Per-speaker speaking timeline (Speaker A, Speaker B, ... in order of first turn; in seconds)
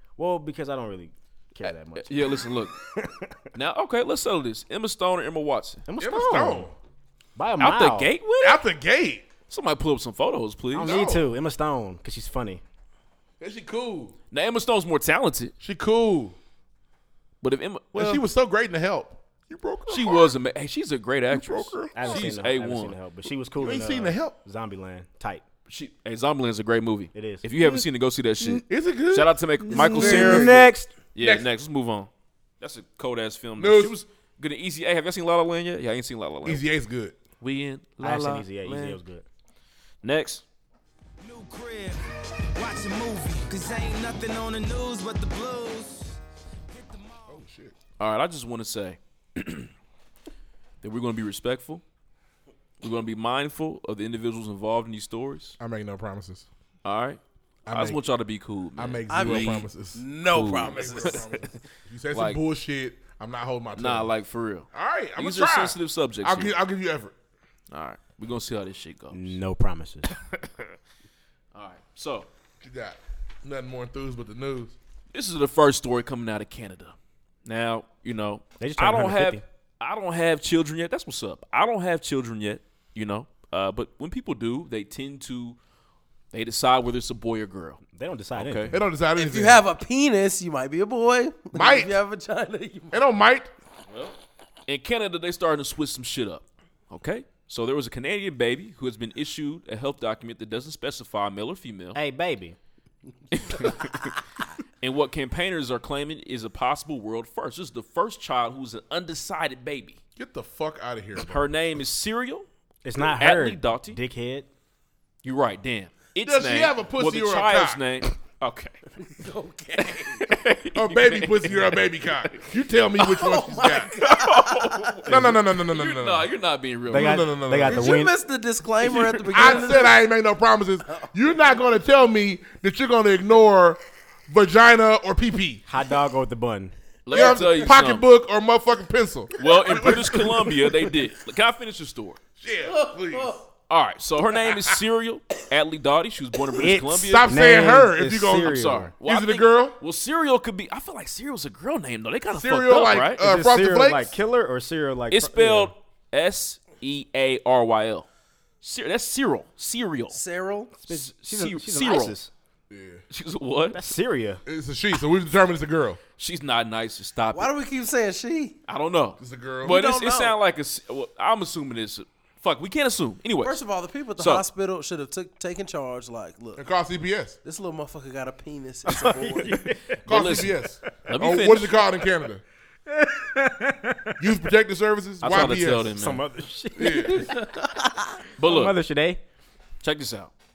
Speaker A: 0.2-2.3, 3.0-3.4, 5.9-6.7, 7.3-8.1, 10.7-12.6, 21.9-25.4, 27.1-27.8, 29.7-30.9, 38.0-39.2, 69.1-70.1, 78.6-79.4, 87.9-88.8, 101.9-102.6, 112.8-114.5, 126.9-128.2, 135.7-136.7, 146.6-148.9, 153.2-155.7, 160.8-162.3, 163.7-164.4, 179.1-180.0, 182.9-184.2, 185.8-187.4, 188.4-189.2
Speaker B: 1.9-2.7, 3.5-5.8, 7.6-8.7, 9.5-11.0, 14.3-15.5, 17.4-18.2, 19.9-22.9, 25.7-36.6, 37.4-39.0, 40.0-40.4, 48.0-49.7, 50.8-51.8, 52.8-55.6, 56.8-59.7, 60.3-61.2, 62.1-62.4, 63.7-66.5, 67.7-69.4, 70.3-70.6, 71.5-72.3, 75.1-76.9, 77.5-85.6, 86.3-87.8, 88.3-88.7, 93.9-94.2, 94.7-102.0, 103.3-104.2, 104.8-110.0, 111.2-112.5, 113.1-114.0, 115.2-118.8, 119.8-122.3, 123.9-127.3, 128.8-129.6, 137.1-138.0, 139.4-142.2, 143.7-147.3, 148.4-153.2, 155.1-158.1, 158.6-160.2, 160.9-162.1, 163.1-163.8, 166.2-167.5, 168.7-173.6, 174.2-174.4, 180.1-181.8, 185.2-186.2, 188.4-188.8, 189.8-190.3
Speaker C: 6.0-6.7, 8.4-9.3, 10.8-11.3, 13.4-14.1, 15.6-16.4, 17.9-20.3, 21.3-22.3, 23.6-24.4, 28.7-30.6, 31.2-31.5, 33.6-34.0, 36.4-37.2, 47.3-47.8, 55.6-56.5, 57.6-58.0, 58.8-64.1, 64.7-67.1, 72.6-74.7, 88.7-89.6, 91.5-92.0, 92.9-93.5, 110.2-111.5, 116.2-117.8, 120.7-123.9, 125.1-126.3, 126.9-127.9, 129.3-135.6, 137.1-140.6, 142.4-143.4, 146.9-149.8, 152.3-154.2, 162.7-163.0, 164.4-166.0, 169.2-169.7, 176.6-177.4, 180.1-182.4, 184.2-186.0, 186.8-187.3
Speaker D: 41.2-42.0, 42.5-46.2, 46.7-47.4
Speaker E: 59.1-61.3, 89.2-93.0, 119.0-120.2, 123.2-124.9, 127.7-130.0, 137.1-137.7, 142.7-143.4, 160.1-160.7, 167.3-168.6, 169.6-170.4, 173.4-176.6, 177.4-179.6, 187.4-187.9